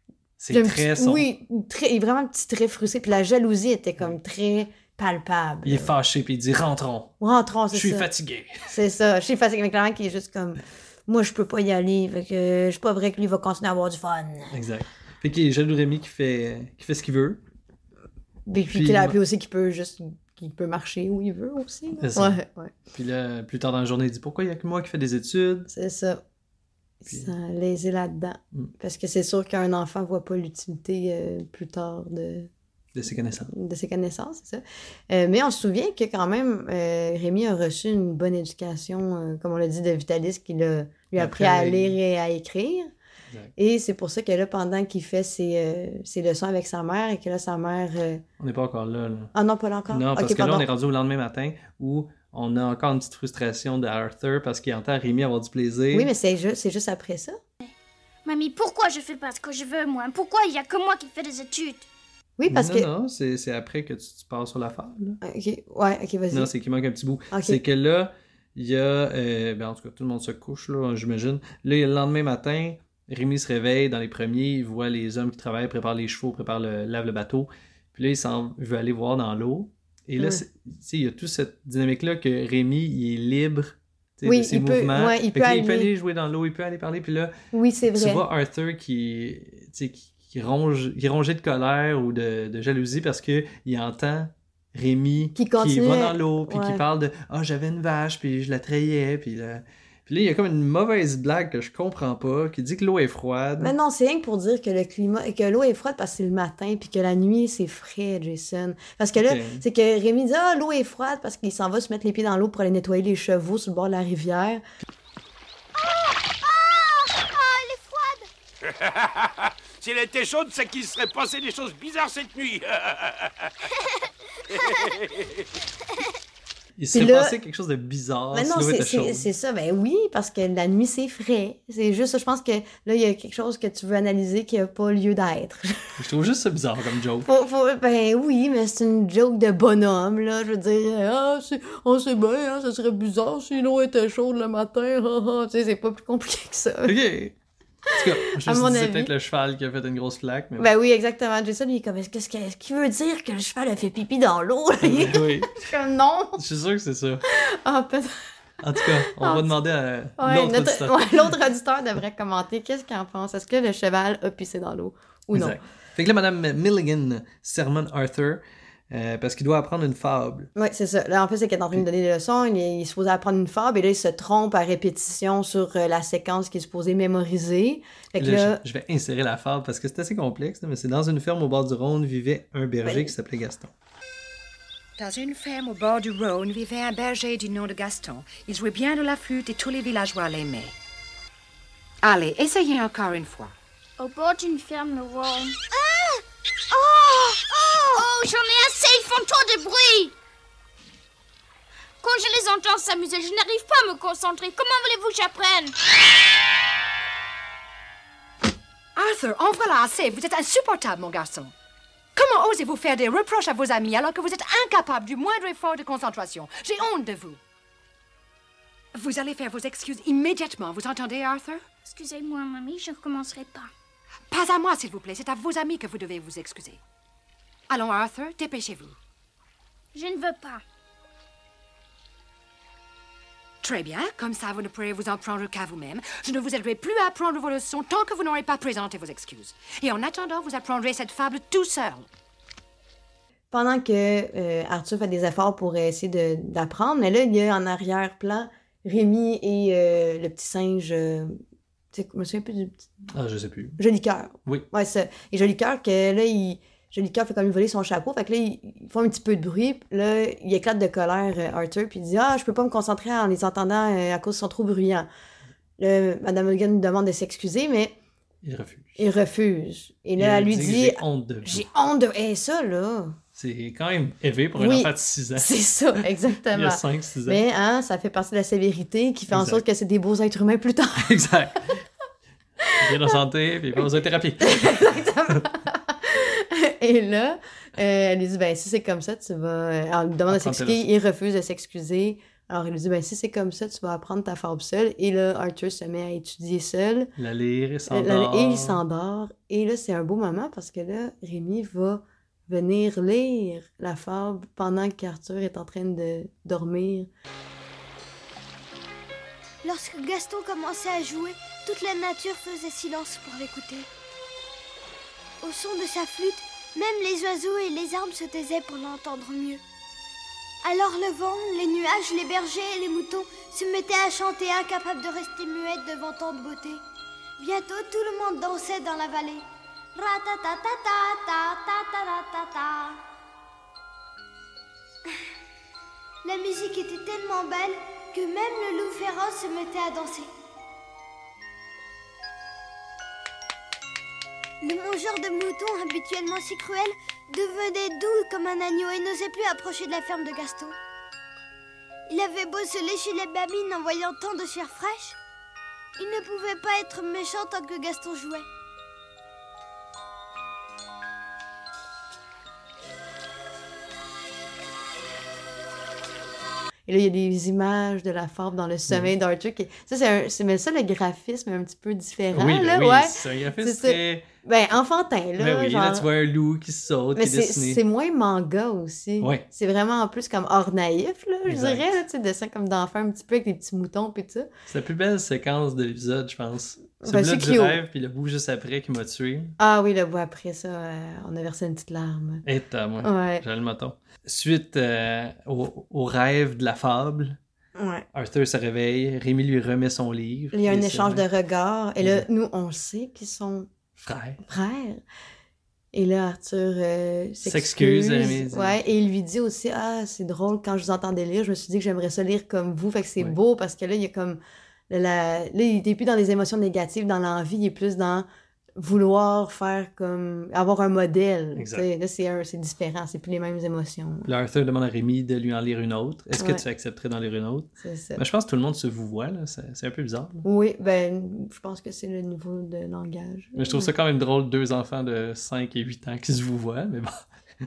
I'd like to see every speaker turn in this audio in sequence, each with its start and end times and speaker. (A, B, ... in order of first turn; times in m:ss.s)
0:00.4-0:01.2 A
0:00.5-0:05.9 B
0:05.6-0:07.1 A
0:07.2-0:08.1 B
0:07.7-0:08.7 A
0:08.6-0:14.6 B
0:14.5-0:17.4 A
0:18.5-0:22.7 B
0:18.7-0:19.2 A
0:22.0-0:22.4 A
0:22.9-0:25.7 A
0:25.7-0:26.2 B
0:27.0-0:32.5 B
0:27.1-0:27.3 A
0:32.9-0:33.5 A
0:33.4-0:42.9 B
0:41.2-0:42.0 A
0:43.6-0:48.2 B
0:48.4-0:49.3 A
0:49.3-0:50.7 B
0:49.9-0:56.1 A
0:55.9-0:57.4 B
0:58.2-1:01.8 C
1:02.4-1:02.9 B
1:02.5-1:05.2 A
1:05.2-1:06.5 B
1:06.3-1:27.3 A
1:07.3-1:07.6 B
1:20.2-1:20.4 B
1:24.2-1:25.9 B
1:27.5-1:28.2 B
1:27.9-1:43.7 A
1:35.4-1:36.8 B
1:43.6-1:54.6 B
1:49.2-1:49.6 A
1:55.7-1:58.3 D
1:58.9-1:59.3 E
1:59.8-2:02.6 E
2:04.6-2:04.9 D
2:06.8-2:09.3 A
2:06.9-2:07.4 B
2:08.3-2:15.9 B
2:16.0-2:17.3 A
2:17.2-2:26.9 B
2:26.8-2:27.4 A
2:27.9-2:29.1 B
2:27.9-2:30.7 A
2:30.6-2:36.4 B
2:34.8-2:35.7 A
2:36.4-2:37.2 A
2:37.3-2:38.2 B
2:38.6-2:41.0 A
2:38.8-2:39.5 B
2:40.2-2:45.6 B
2:45.3-2:50.5 A
2:50.6-2:58.6 B
2:58.2-3:03.7 A
3:02.8-3:03.1 B
3:05.0-3:10.8 F
3:12.0-3:13.5 F
3:14.0-3:15.6 C
3:15.7-3:18.1 D
3:17.9-3:20.1 C
3:22.0-3:25.7 C
3:28.9-3:31.5 F
3:32.1-3:37.4 F
3:38.9-3:41.6 F
3:41.8-3:43.7 C
3:44.3-3:46.8 F
3:47.7-3:49.0 F
3:49.9-3:50.6 C
3:53.6-4:02.1 F
4:03.5-4:11.4 B
4:11.9-4:12.9 B
4:13.1-4:13.8 A
4:13.8-4:25.1 B
4:25.8-4:28.0 B
4:28.4-4:29.0 A
4:29.0-4:33.2 B
4:30.2-4:31.6 A
4:33.3-4:37.4 A
4:34.6-4:41.2 B
4:39.3-4:39.6 A
4:41.0-4:41.8 A
4:42.6-4:43.1 B
4:42.8-4:45.4 A
4:44.4-4:57.1 B
4:50.3-4:50.9 A
4:57.2-4:58.8 A
4:57.9-5:07.1 B
5:09.6-5:13.9 D
5:15.4-5:19.6 D
5:20.6-5:26.8 D
5:27.4-5:29.4 D
5:29.9-5:33.0 D
5:36.2-5:40.3 D
5:44.6-5:50.8 D
5:52.1-5:55.2 D
5:56.0-5:58.5 D
6:06.9-6:16.1 B
6:12.3-6:14.3 A
6:15.4-6:17.8 A
6:17.2-6:24.5 B
6:19.2-6:19.4 A
6:21.4-6:21.9 A
6:24.7-6:29.6 A
6:27.0-6:27.8 B
6:29.6-6:32.4 B
6:32.4-6:37.4 A
6:33.0-6:33.4 B
6:37.8-6:38.0 B
6:38.1-6:41.2 A
6:40.5-6:43.7 B
6:42.0-6:42.2 A
6:44.0-6:44.4 A
6:44.4-6:45.0 B
6:45.9-6:58.2 B
6:47.4-6:48.8 A
6:58.8-7:04.3 B
7:01.5-7:01.9 A
7:04.2-7:10.4 A
7:06.4-7:06.6 B
7:07.8-7:08.2 B
7:10.4-7:13.9 B
7:13.5-7:17.2 A